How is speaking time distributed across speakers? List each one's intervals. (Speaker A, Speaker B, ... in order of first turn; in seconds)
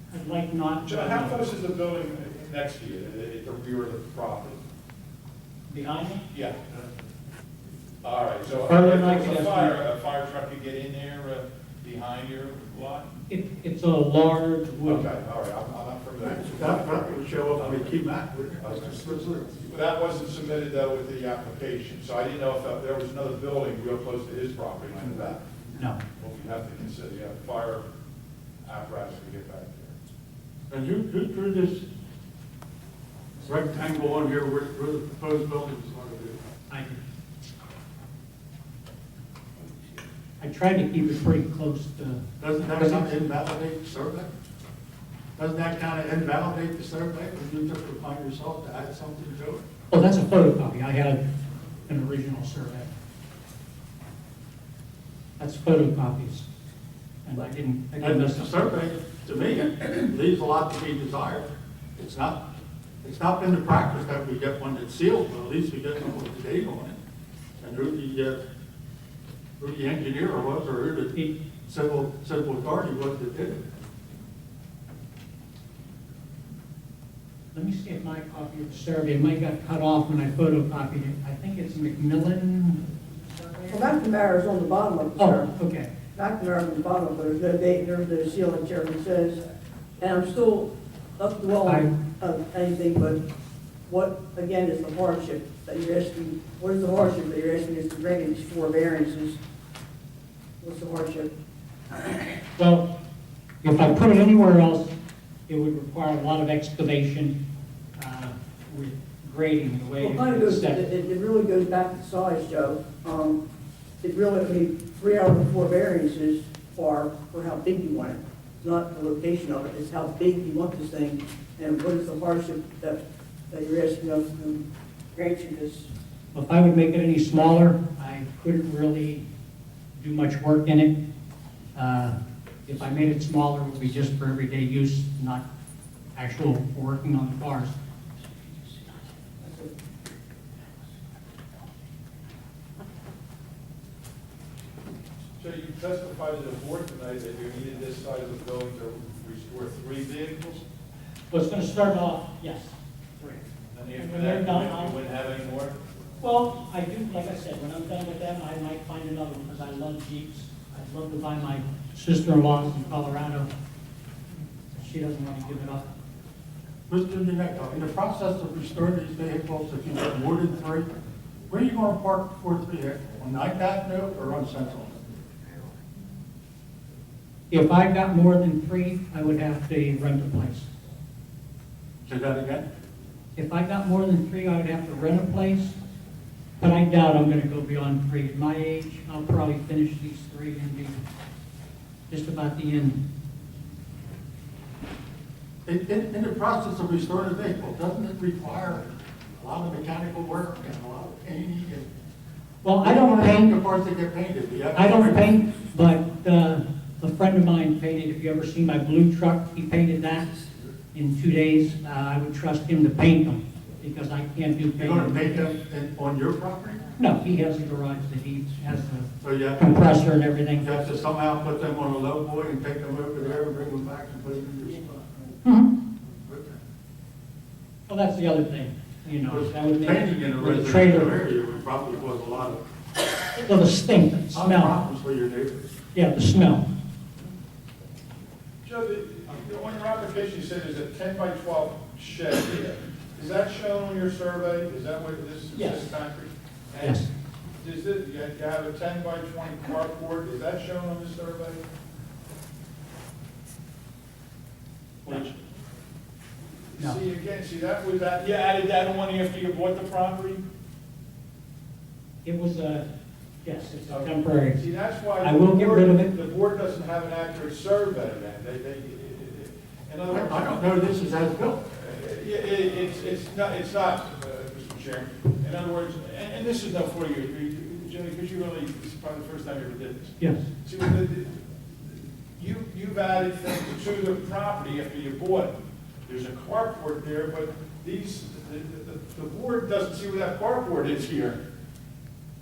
Speaker A: 0.1-1.5, 5.7-6.3, 8.6-9.8, 13.3-15.1, 25.7-26.0, 36.7-37.0, 40.4-43.3, 49.9-51.2, 51.9-52.9, 55.4-56.5, 57.2-58.7, 77.5-82.8, 83.3-83.9, 85.2-85.9, 91.6-91.9, 102.6-102.8, 103.6-104.9, 105.5-107.3, 108.0-110.8, 126.3-129.2, 130.0-130.9, 131.7-135.4, 136.1-137.8, 151.3-153.4, 153.9-155.0, 156.2-163.5, 164.8-165.8, 177.5-180.7, 183.3-185.8, 186.6-191.0, 192.1-193.0, 202.6-203.5, 204.7-210.3, 210.9-215.6, 217.0-220.8, 225.4-225.7, 227.9-231.2, 233.4-234.8, 235.9-236.7, 245.5-245.9, 246.8-247.1, 255.0-255.3, 262.2-262.9, 263.4-264.6, 265.2-266.1, 280.2-280.4
Speaker B: 0.8-4.6, 6.3-6.6, 8.0-13.2, 14.8-18.0, 18.6-25.5, 26.1-27.8, 28.6-29.9, 145.4-150.7, 153.7-155.8, 238.6-251.6, 256.5-260.4, 263.9-270.8, 271.6-291.4
Speaker C: 16.2-19.6, 30.7-31.9, 33.4-36.4, 42.4-44.3, 45.4-49.6, 58.0-62.5, 63.0-67.0, 67.6-68.4, 69.6-73.6, 166.9-170.9, 171.5-175.0, 182.1-182.7, 195.7-201.9, 202.8-205.4, 214.8-216.8, 219.2-220.0, 220.6-225.2, 226.2-226.6, 229.2-232.6, 234.3-235.7, 270.1-271.6
Speaker D: 83.7-85.5, 86.1-89.4, 90.0-93.2, 93.9-99.4, 100.6-101.3, 101.9-102.4, 110.0-113.4, 114.0-123.0, 123.5-125.9, 139.4-139.7